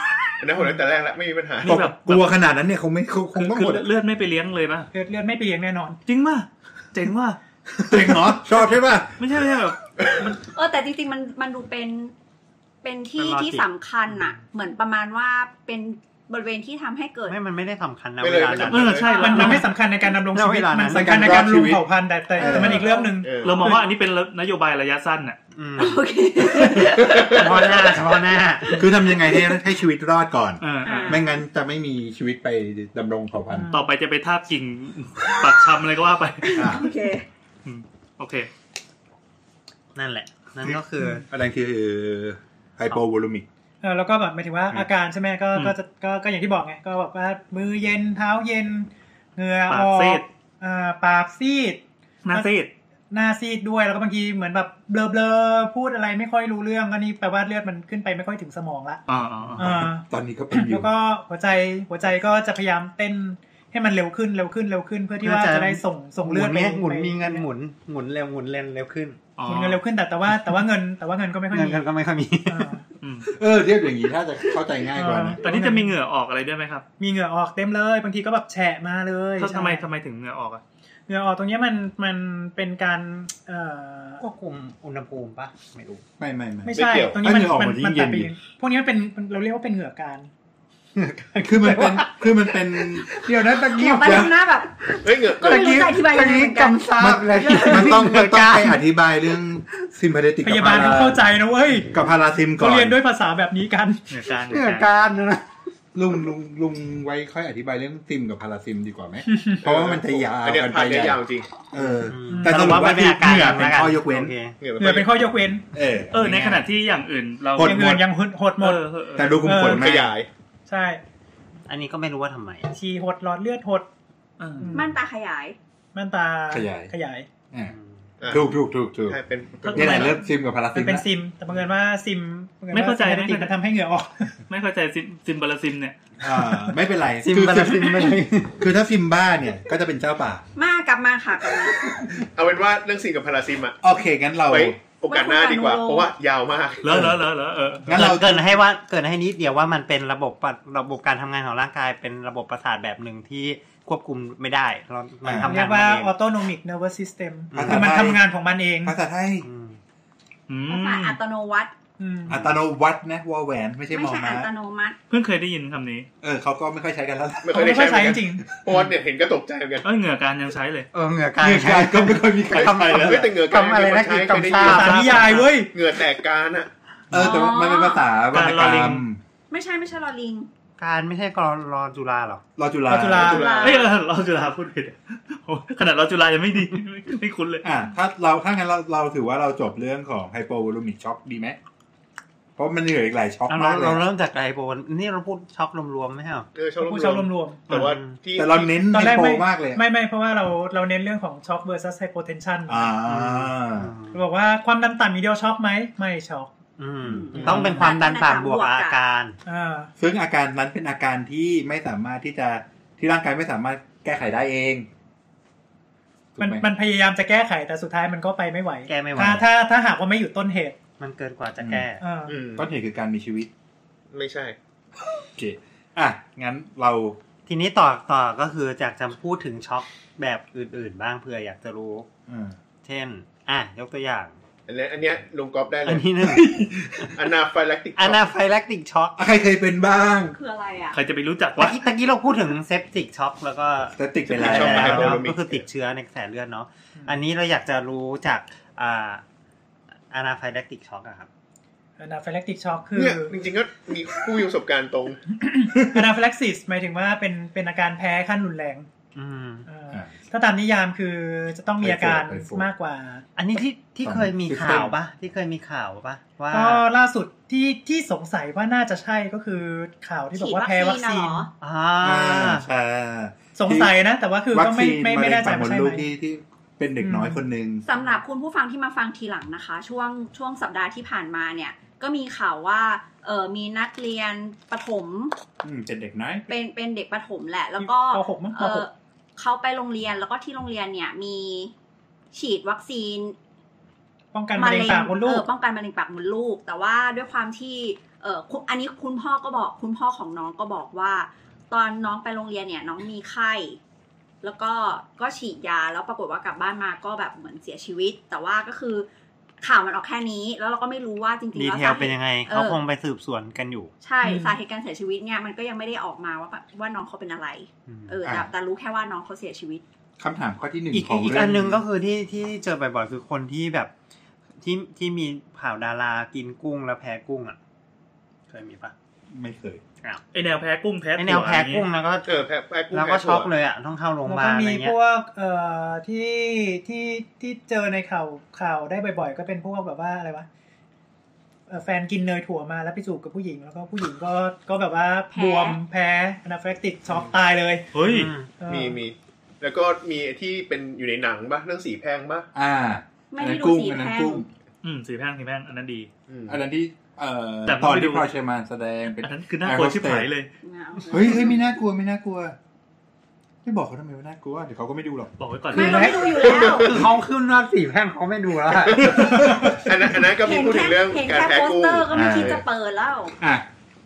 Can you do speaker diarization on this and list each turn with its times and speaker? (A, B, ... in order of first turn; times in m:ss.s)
0:00.4-0:01.8 A
0:01.6-0:02.3 B
0:01.6-0:03.9 C
0:03.3-0:04.9 B
0:04.9-0:06.0 D
0:06.1-0:07.4 B
0:07.8-0:09.2 C
0:09.2-0:10.4 B
0:10.0-0:10.3 A
0:10.4-0:12.1 E
0:12.8-0:17.4 E
0:13.2-0:13.6 F
0:17.3-0:21.5 F
0:18.2-0:19.3 A
0:18.7-0:19.7 B
0:19.1-0:23.9 D
0:20.9-0:21.8 C
0:22.4-0:22.9 C
0:22.5-0:23.2 E
0:22.7-0:23.7 A
0:23.4-0:25.4 B
0:25.5-0:26.0 F
0:25.8-0:28.1 E
0:26.6-0:28.9 F
0:28.7-0:29.4 E
0:28.8-0:33.7 C
0:30.6-0:31.2 B
0:30.8-0:31.3 E
0:33.5-0:33.9 D
0:33.7-0:36.8 B
0:36.4-0:37.3 E
0:36.6-0:36.9 C
0:37.6-0:38.5 B
0:39.9-0:41.2 F
0:41.3-0:43.4 C
0:43.8-0:52.5 D
0:49.7-0:50.2 B
0:52.2-0:52.7 B
0:53.1-0:59.0 D
0:59.1-0:59.8 B
0:59.6-1:00.9 C
0:59.6-1:07.4 D
1:05.2-1:09.2 F
1:09.4-1:09.8 B
1:09.4-1:11.8 D
1:11.5-1:12.7 F
1:12.5-1:12.8 D
1:13.0-1:13.3 B
1:13.3-1:15.4 C
1:14.9-1:16.0 D
1:15.4-1:16.8 B
1:17.0-1:19.8 D
1:19.4-1:20.6 B
1:21.1-1:24.2 D
1:24.2-1:26.0 F
1:26.2-1:28.3 C
1:26.6-1:30.3 D
1:26.7-1:27.2 A
1:31.0-1:34.2 F
1:31.4-1:34.4 C
1:33.6-1:37.8 E
1:34.9-1:38.8 F
1:35.0-1:35.8 A
1:37.0-1:41.2 C
1:40.4-1:41.9 D
1:41.9-1:43.0 C
1:42.6-1:44.0 D
1:44.1-1:44.9 B
1:44.5-1:45.5 F
1:45.9-1:54.3 C
1:49.3-1:49.6 D
1:49.6-1:51.5 A
1:52.0-1:54.6 F
1:52.3-1:52.8 D
1:54.6-1:55.2 A
1:54.8-1:55.6 D
1:55.7-1:56.7 C
1:56.1-1:58.0 B
1:57.5-1:58.0 C
1:57.6-1:58.8 D
1:58.6-1:59.4 B
1:59.2-2:00.2 C
1:59.4-1:59.9 D
1:59.5-2:00.3 A
2:00.7-2:01.0 D
2:01.7-2:02.7 F
2:02.7-2:03.9 D
2:04.4-2:04.8 B
2:04.6-2:05.0 D
2:04.7-2:05.6 E
2:05.9-2:07.3 D
2:06.5-2:06.9 C
2:07.6-2:08.0 F
2:08.2-2:08.5 A
2:08.3-2:11.0 C
2:09.1-2:10.1 A
2:09.7-2:10.1 B
2:09.8-2:10.1 D
2:10.7-2:14.4 D
2:12.7-2:13.5 B
2:14.5-2:16.0 B
2:16.2-2:20.4 C
2:17.2-2:18.6 F
2:20.6-2:21.8 E
2:21.9-2:22.2 C
2:22.2-2:23.8 A
2:23.8-2:24.8 C
2:24.5-2:27.1 A
2:25.0-2:26.1 E
2:26.8-2:27.9 B
2:26.9-2:27.2 C
2:27.8-2:28.4 C
2:27.9-2:36.1 F
2:35.2-2:35.5 C
2:35.4-2:39.0 D
2:37.5-2:38.0 F
2:37.5-2:38.2 C
2:38.8-2:39.5 C
2:39.4-2:39.8 F
2:40.5-2:41.2 B
2:40.7-2:41.7 E
2:42.0-2:42.5 D
2:42.3-2:44.5 C
2:43.9-2:45.0 E
2:45.1-2:46.1 B
2:46.2-2:47.8 C
2:47.4-2:49.9 A
2:47.5-2:48.4 D
2:49.8-2:50.9 B
2:50.9-2:55.5 F
2:51.4-2:53.2 C
2:52.9-2:56.7 A
2:54.6-2:55.7 D
2:55.1-2:55.4 B
2:57.1-2:59.2 C
2:57.1-2:58.1 E
2:58.3-2:59.0 B
2:59.5-3:00.5 E
3:00.8-3:02.4 F
3:02.6-3:03.4 C
3:02.9-3:03.5 D
3:03.1-3:03.8 A
3:03.2-3:03.9 E
3:03.6-3:07.7 B
3:07.6-3:11.6 C
3:12.6-3:14.0 C
3:13.5-3:16.5 F
3:16.5-3:18.9 A
3:16.8-3:17.7 D
3:17.7-3:18.2 F
3:18.3-3:19.8 C
3:18.9-3:22.9 D
3:22.6-3:23.9 C
3:23.1-3:24.2 F
3:24.1-3:26.5 D
3:26.8-3:29.4 F
3:27.1-3:29.0 E
3:27.5-3:27.7 D
3:29.4-3:29.9 D
3:30.0-3:34.9 C
3:36.4-3:36.6 C
3:36.4-3:40.8 D
3:38.9-3:39.4 F
3:39.2-3:39.4 C
3:41.0-3:42.0 F
3:41.6-3:41.8 C
3:42.0-3:42.4 D
3:42.3-3:42.7 A
3:42.6-3:43.5 C
3:44.1-3:44.6 A
3:45.4-3:47.2 C
3:47.4-3:52.1 F
3:52.3-3:52.6 C
3:52.8-3:54.3 F
3:54.7-3:56.1 A
3:55.8-3:56.7 F
3:56.2-3:57.1 C
3:57.1-3:58.2 A
3:58.0-3:59.2 F
3:59.2-4:00.4 C
4:00.3-4:01.0 E
4:00.9-4:01.8 B
4:01.6-4:09.2 F
4:04.0-4:05.2 C
4:04.3-4:05.6 A
4:10.1-4:11.3 F
4:12.0-4:13.4 D
4:12.9-4:15.2 A
4:15.3-4:18.9 D
4:19.1-4:19.7 F
4:19.7-4:23.2 D
4:21.8-4:22.7 C
4:23.4-4:26.8 F
4:24.0-4:24.9 C
4:26.5-4:31.5 D
4:30.4-4:31.5 E
4:31.6-4:32.7 F
4:32.0-4:34.0 C
4:33.6-4:36.0 D
4:34.5-4:37.8 C
4:37.0-4:37.4 D
4:37.8-4:45.3 E
4:45.6-4:46.5 C
4:46.5-4:51.7 E
4:47.8-4:48.8 D
4:52.3-4:53.4 E
4:54.3-4:55.4 D
4:54.5-5:03.8 E
5:04.4-5:09.1 E
5:09.6-5:12.8 E
5:11.5-5:13.9 F
5:14.0-5:19.8 E
5:14.2-5:14.6 D
5:17.9-5:18.2 F
5:20.2-5:21.8 C
5:20.9-5:23.9 F
5:24.6-5:27.6 F
5:28.5-5:28.9 F
5:29.3-5:29.8 C
5:30.3-5:31.9 B
5:31.2-5:32.4 F
5:32.2-5:33.5 A
5:32.9-5:35.0 F
5:34.2-5:40.5 D
5:41.7-5:47.9 D
5:45.3-5:45.8 E
5:47.9-5:48.3 B
5:48.0-5:48.5 F
5:48.6-5:49.0 D
5:48.7-5:52.5 A
5:52.5-5:54.5 C
5:53.3-5:54.4 E
5:54.8-5:56.1 B
5:56.3-5:56.6 A
5:56.5-6:00.3 C
5:57.7-5:58.3 B
5:59.2-6:00.5 B
6:00.6-6:01.6 E
6:01.1-6:02.6 C
6:03.6-6:05.3 C
6:05.4-6:06.3 B
6:05.7-6:07.0 E
6:05.8-6:06.1 D
6:06.4-6:06.9 A
6:06.7-6:09.3 F
6:08.8-6:12.6 A
6:09.1-6:09.8 C
6:10.4-6:13.3 E
6:12.1-6:12.6 C
6:13.4-6:13.6 C